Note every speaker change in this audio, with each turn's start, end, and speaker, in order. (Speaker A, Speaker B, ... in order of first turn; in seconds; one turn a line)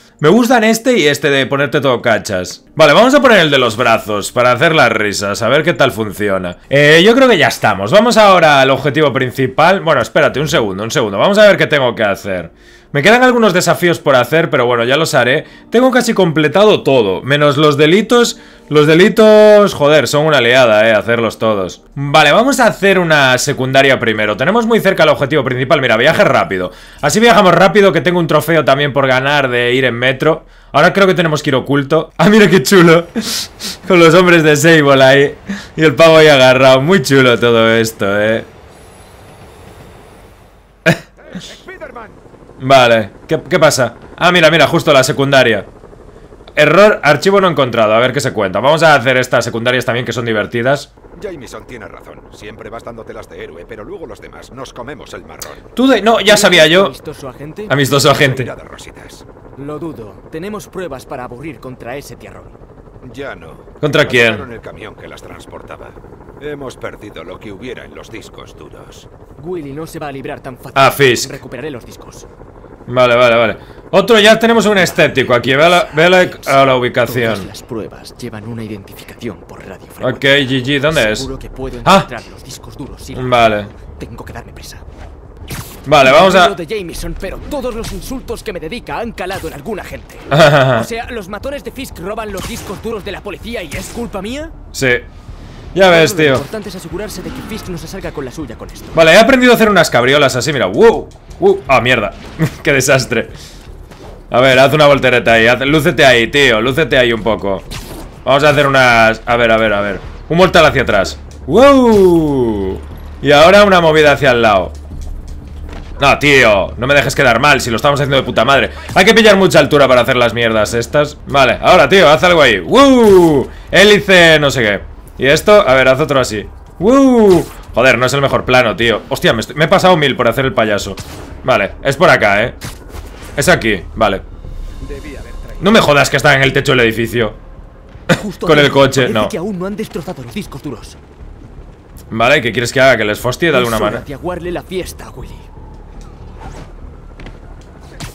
Speaker A: 0.2-38.5
Speaker B: 41.2-42.2
Speaker A: 42.6-45.7
Speaker A: 46.5-50.9
Speaker B: 51.1-55.7
Speaker A: 55.7-56.9
Speaker C: 56.2-57.7
Speaker A: 57.7-58.5
Speaker B: 57.8-59.2
Speaker C: 59.6-62.5
Speaker B: 63.0-69.1
Speaker A: 63.8-64.5
Speaker C: 69.4-72.3
Speaker A: 70.7-71.4
Speaker A: 72.9-77.5
Speaker C: 74.8-84.8
Speaker A: 80.0-81.3
Speaker A: 81.8-82.1
Speaker A: 83.1-83.7
Speaker A: 85.8-86.5
Speaker C: 86.0-94.5
Speaker A: 90.3-90.9
Speaker A: 94.7-95.1
Speaker A: 95.7-96.4
Speaker C: 95.8-99.0
Speaker A: 98.9-103.3
Speaker A: 104.3-107.7
Speaker A: 108.2-114.7
Speaker A: 116.0-132.6
Speaker A: 133.3-134.2
Speaker B: 134.8-135.9
Speaker A: 135.6-137.4
Speaker A: 138.1-139.3
Speaker C: 138.1-141.0
Speaker A: 142.1-144.0
Speaker C: 143.5-145.5